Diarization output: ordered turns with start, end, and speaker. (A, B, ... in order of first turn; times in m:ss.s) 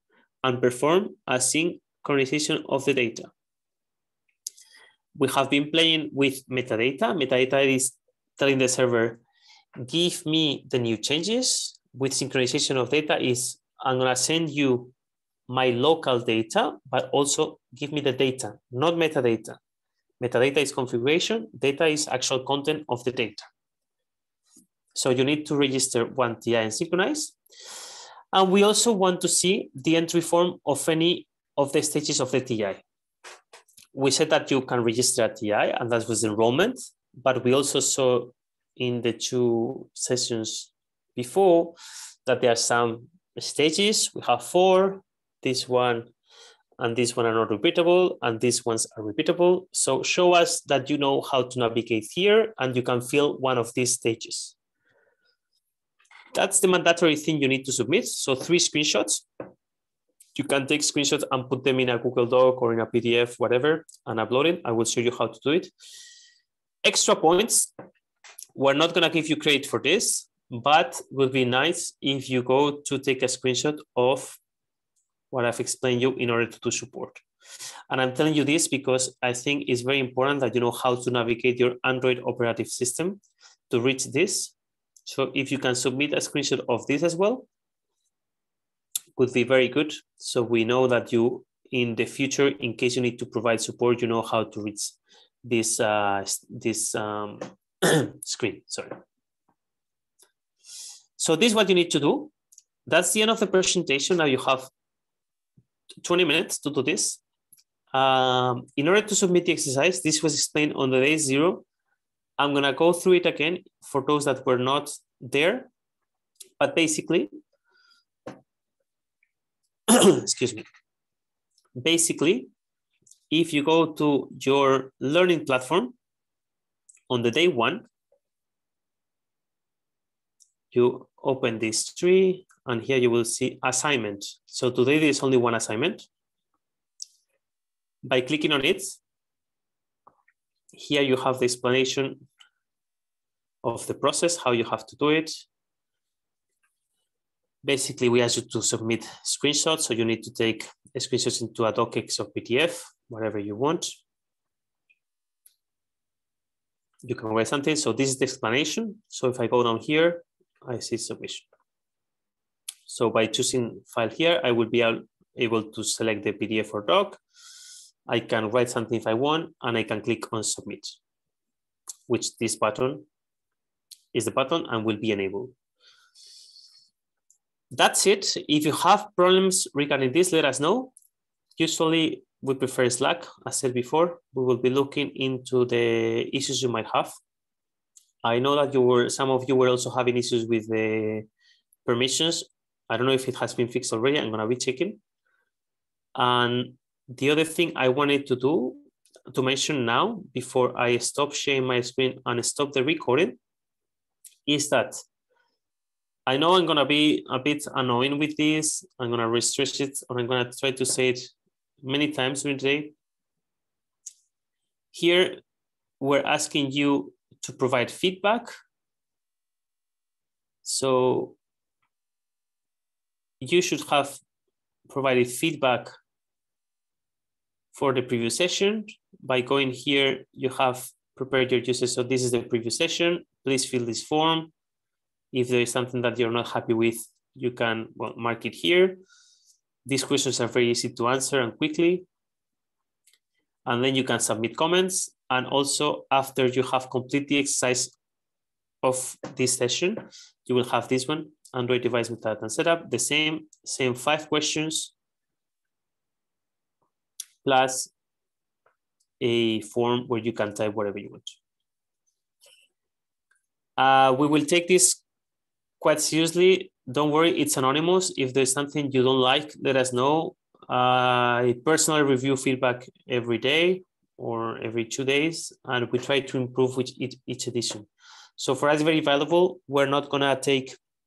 0:00.4-0:03.3 A
0:05.2-0:09.2 A
0:09.8-0:14.9 A
0:15.5-0:19.6 A
0:20.2-0:23.4 A
0:24.9-0:27.4 A
0:28.3-0:32.8 A
0:33.9-0:46.1 A
0:46.8-0:54.5 A
0:56.3-0:59.2 A
1:00.3-1:05.7 A
1:06.8-1:07.7 A
1:08.5-1:14.4 A
1:15.3-1:17.2 A
1:17.9-1:24.5 A
1:25.1-1:27.5 A
1:29.2-1:39.0 A
1:41.2-1:42.3 A
1:42.9-1:44.7 A
1:46.0-1:47.2 A
1:47.9-1:51.6 A
1:52.4-1:55.7 A
1:56.6-1:57.3 A
1:59.9-2:00.6 A
2:01.8-2:02.5 A
2:03.3-2:05.9 A
2:07.1-2:07.8 A
2:10.7-2:16.1 A
2:18.0-2:19.0 A
2:20.7-2:22.2 A
2:23.6-2:25.5 A
2:27.6-2:34.0 A
2:37.0-2:41.5 A
2:42.9-2:47.2 A
2:48.1-2:51.0 A
2:52.1-2:53.0 A
2:54.1-2:55.5 A
2:57.7-3:00.9 A
3:01.6-3:07.2 A
3:08.2-3:11.3 A
3:11.8-3:15.0 A
3:16.1-3:23.4 A
3:24.5-3:25.0 A
3:26.3-3:31.3 A
3:31.8-3:32.9 A
3:34.9-3:35.4 A
3:36.0-3:38.5 A
3:40.6-3:41.4 A
3:43.4-3:44.2 A
3:44.9-3:45.9 A
3:47.7-3:54.5 A
3:55.3-3:59.0 A
3:59.8-4:02.1 A
4:03.6-4:07.9 A
4:08.8-4:14.9 A
4:17.4-4:17.9 A
4:19.2-4:21.4 A
4:23.8-4:25.0 A
4:25.8-4:40.8 A